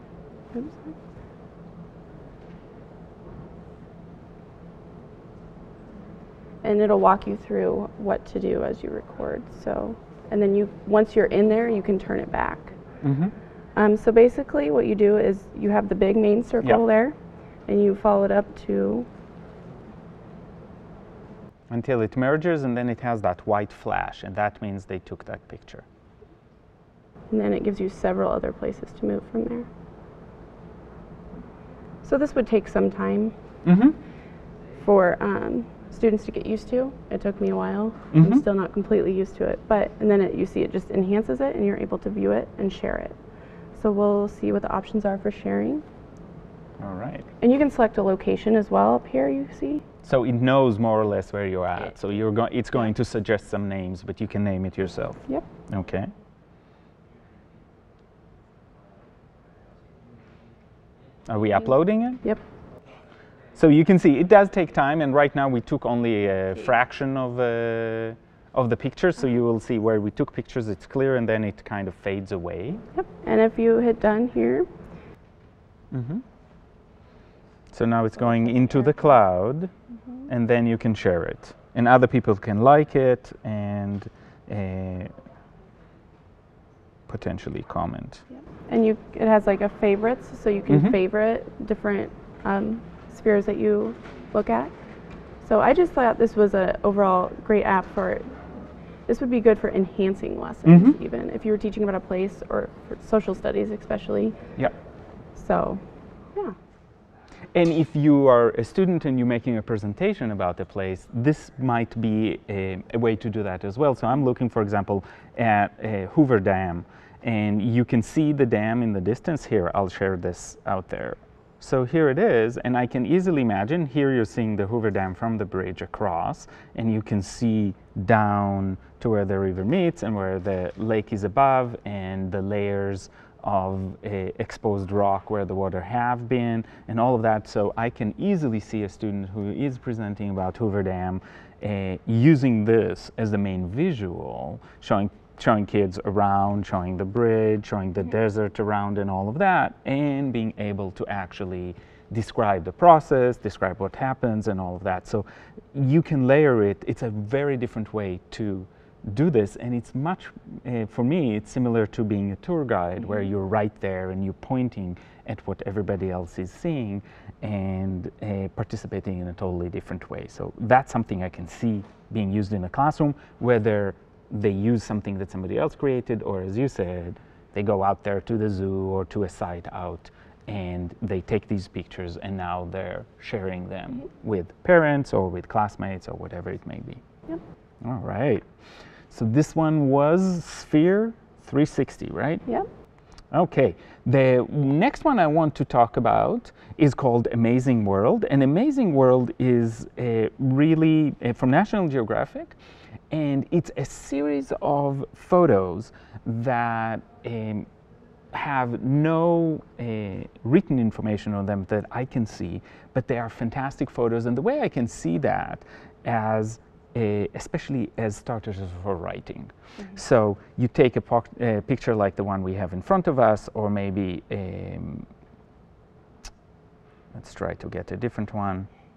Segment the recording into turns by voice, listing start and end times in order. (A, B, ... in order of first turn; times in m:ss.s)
0:00.5-0:00.9 A
0:06.6-0:12.8 A
0:13.0-0:13.3 B
0:13.8-0:17.2 A
0:17.7-0:19.1 A
0:21.7-0:25.8 B
0:27.3-0:29.6 A
0:32.0-0:33.3 A
0:33.6-0:34.0 B
0:34.8-0:43.2 A
0:38.1-0:38.4 B
0:43.7-0:45.8 A
0:46.8-0:47.3 B
0:47.4-0:49.8 A
0:50.0-0:56.1 B
1:01.3-1:02.2 B
1:03.6-1:12.8 B
1:12.9-1:14.7 A
1:15.9-1:16.2 B
1:17.7-1:19.7 B
1:20.3-1:25.1 B
1:27.1-1:28.2 B
1:28.7-1:34.7 A
1:30.7-1:31.0 B
1:35.4-1:38.2 A
1:39.1-1:44.4 A
1:40.6-1:41.0 B
1:45.3-1:46.5 A
1:47.5-3:07.0 B
3:07.8-3:08.4 B
3:09.1-3:12.5 B
3:13.3-3:22.5 B
3:23.1-3:27.7 B
3:28.3-3:45.1 B
3:47.1-3:48.7 B